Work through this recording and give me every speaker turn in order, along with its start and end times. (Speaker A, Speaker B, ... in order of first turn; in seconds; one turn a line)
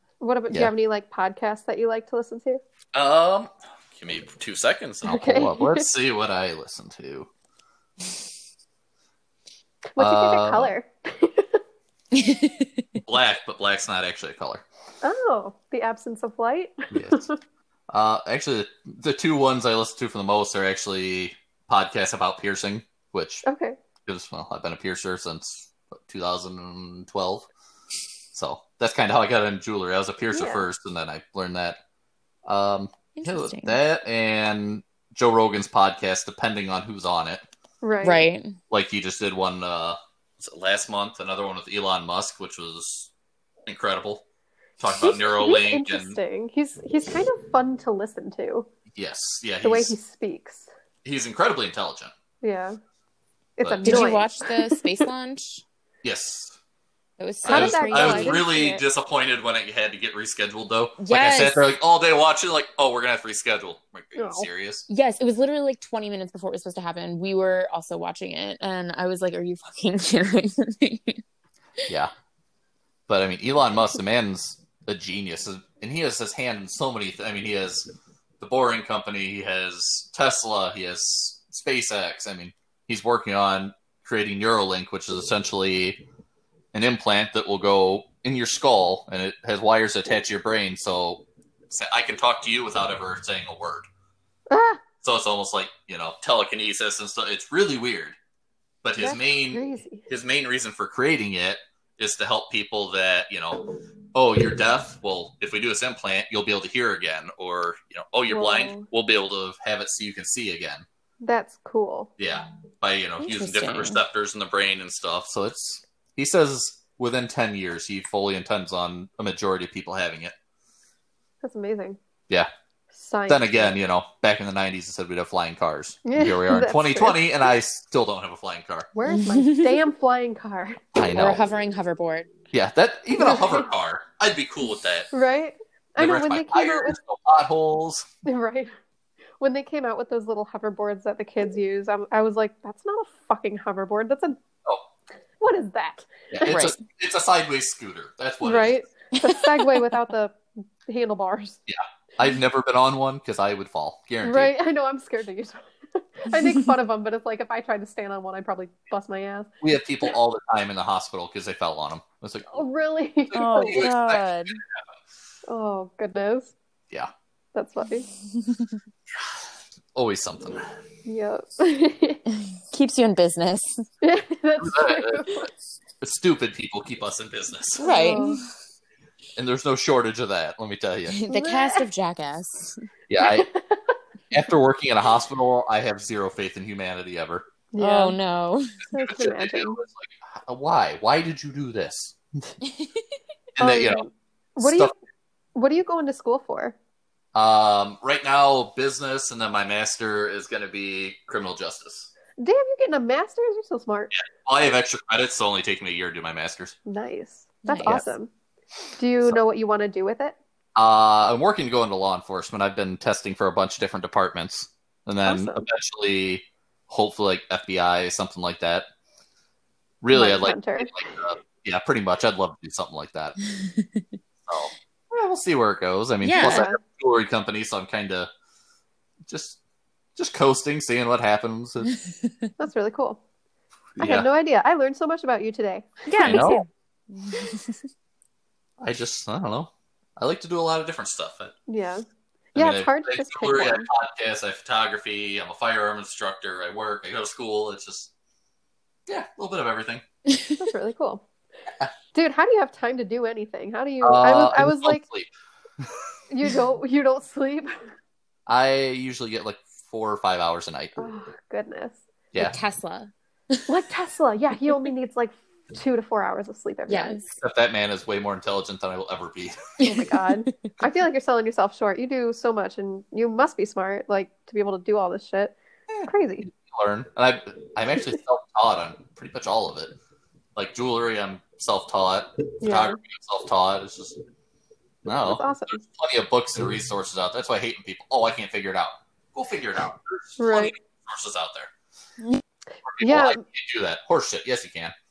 Speaker A: 0.2-2.6
Speaker B: 2.9-7.3
Speaker A: 5.0-5.9
Speaker A: 9.9-11.6
Speaker B: 10.0-10.7
Speaker C: 12.1-12.8
Speaker B: 13.0-14.6
Speaker A: 15.0-17.4
Speaker B: 16.9-17.2
Speaker B: 17.9-23.4
Speaker A: 23.4-23.8
Speaker B: 24.0-27.5
Speaker B: 28.3-31.8
Speaker A: 30.3-30.6
Speaker B: 32.5-37.4
Speaker C: 33.1-33.8
Speaker A: 37.8-38.3
Speaker C: 38.0-38.5
Speaker B: 38.7-43.1
Speaker B: 43.6-44.2
Speaker B: 44.8-46.2
Speaker A: 45.1-48.7
Speaker B: 48.9-49.9
Speaker A: 49.6-50.7
Speaker B: 51.0-52.1
Speaker A: 52.4-52.8
Speaker A: 53.6-55.0
Speaker B: 53.6-54.2
Speaker C: 53.8-55.6
Speaker B: 56.0-56.6
Speaker C: 57.2-58.8
Speaker A: 57.4-58.5
Speaker B: 57.5-64.8
Speaker C: 61.0-61.6
Speaker A: 64.1-64.5
Speaker C: 64.9-71.2
Speaker B: 73.1-77.9
Speaker B: 78.4-86.0
Speaker B: 86.7-93.9
Speaker A: 94.5-94.8
Speaker B: 95.0-98.2
Speaker B: 98.8-110.8
Speaker A: 99.0-100.1
Speaker A: 108.3-108.9
Speaker A: 111.2-112.1
Speaker B: 112.2-120.3
Speaker C: 113.2-114.0
Speaker A: 121.4-122.0
Speaker A: 122.9-123.7
Speaker B: 123.3-128.9
Speaker A: 126.0-127.2
Speaker A: 128.9-130.8
Speaker C: 129.1-129.7
Speaker B: 130.9-131.4
Speaker C: 131.1-132.3
Speaker B: 132.5-135.1
Speaker A: 133.2-133.7
Speaker A: 135.1-137.0
Speaker B: 136.0-138.1
Speaker A: 138.2-138.7
Speaker A: 139.4-144.4
Speaker A: 145.4-146.6
Speaker B: 146.3-148.7
Speaker C: 146.4-146.8
Speaker A: 148.4-151.6
Speaker C: 149.2-149.7
Speaker B: 151.7-154.5
Speaker A: 154.2-159.5
Speaker B: 159.6-162.6
Speaker A: 162.5-163.8
Speaker B: 163.3-164.8
Speaker C: 163.3-164.6
Speaker A: 165.5-166.5
Speaker A: 167.5-168.1
Speaker C: 168.2-168.8
Speaker B: 169.1-170.7
Speaker A: 171.1-172.2
Speaker C: 172.3-173.8
Speaker A: 174.0-175.5
Speaker B: 174.6-177.8
Speaker C: 177.8-178.5
Speaker A: 177.8-178.4
Speaker B: 179.3-181.1
Speaker C: 181.1-182.8
Speaker A: 181.3-181.9
Speaker B: 183.1-183.5
Speaker A: 183.2-184.0
Speaker B: 184.3-187.5
Speaker A: 187.7-188.2
Speaker C: 187.8-188.8
Speaker A: 188.9-189.8
Speaker B: 188.9-192.5
Speaker C: 192.6-192.9
Speaker B: 193.6-194.0
Speaker A: 193.6-194.9
Speaker B: 194.6-194.9
Speaker A: 195.5-196.7
Speaker B: 197.3-202.1
Speaker A: 202.4-204.1
Speaker B: 204.1-206.7
Speaker A: 206.8-208.3
Speaker C: 207.6-208.1
Speaker A: 209.0-210.4
Speaker B: 210.8-218.8
Speaker A: 215.2-215.6
Speaker B: 220.0-223.3
Speaker A: 220.1-220.9
Speaker C: 223.4-224.1
Speaker B: 224.4-228.3
Speaker C: 226.2-226.7
Speaker A: 226.4-226.8
Speaker B: 229.3-229.6
Speaker B: 230.2-231.9
Speaker A: 232.6-233.2
Speaker B: 234.0-234.3
Speaker A: 234.0-236.6
Speaker C: 236.1-237.8
Speaker B: 236.2-236.6
Speaker B: 238.8-241.5
Speaker A: 241.7-243.9
Speaker B: 242.5-248.1
Speaker B: 249.1-250.0
Speaker A: 250.6-251.2
Speaker A: 252.1-255.0
Speaker B: 254.0-256.0
Speaker A: 256.3-257.8
Speaker B: 258.5-261.1
Speaker A: 261.0-262.0
Speaker C: 262.4-263.7
Speaker A: 263.7-267.2
Speaker C: 266.9-267.3
Speaker B: 267.3-269.6
Speaker C: 269.8-270.5
Speaker A: 269.8-276.5
Speaker B: 275.9-279.9
Speaker B: 280.6-284.2
Speaker A: 282.6-283.0
Speaker B: 285.0-291.7
Speaker A: 285.1-285.8
Speaker A: 290.4-290.7
Speaker B: 292.9-294.9
Speaker A: 293.0-293.4